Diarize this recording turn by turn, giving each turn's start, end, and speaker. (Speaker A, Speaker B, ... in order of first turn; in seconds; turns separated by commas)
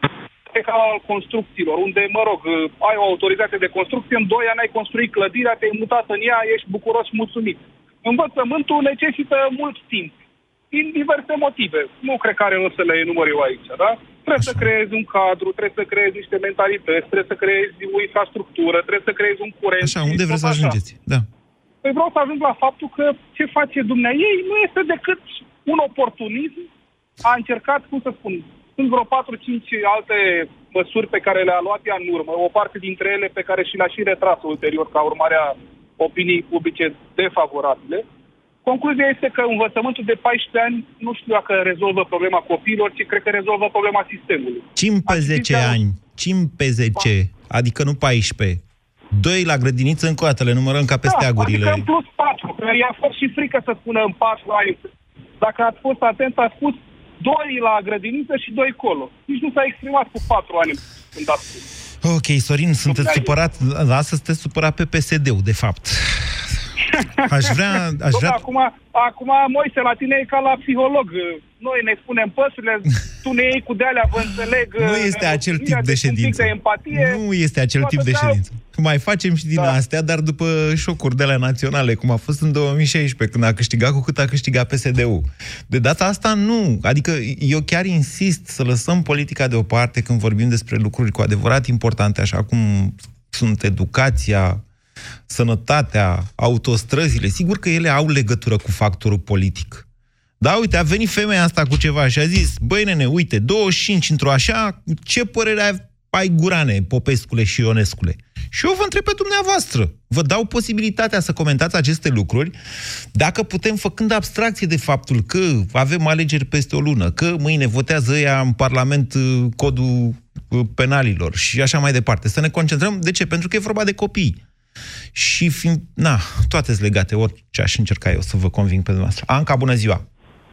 Speaker A: 0.5-10.2, Speaker A: 10.7-20.8, Speaker B: 14.4-14.7, Speaker B: 19.8-21.3, Speaker A: 21.8-26.7, Speaker A: 27.2-38.0, Speaker A: 38.6-45.8, Speaker B: 44.8-51.9, Speaker A: 51.0-54.8, Speaker A: 55.4-61.6, Speaker B: 62.0-66.4, Speaker A: 62.9-63.3, Speaker A: 67.0-77.2, Speaker B: 67.3-68.4, Speaker B: 74.8-94.6, Speaker A: 77.8-78.4, Speaker B: 95.3-99.8, Speaker B: 100.4-112.5, Speaker B: 113.1-124.4, Speaker B: 125.1-130.0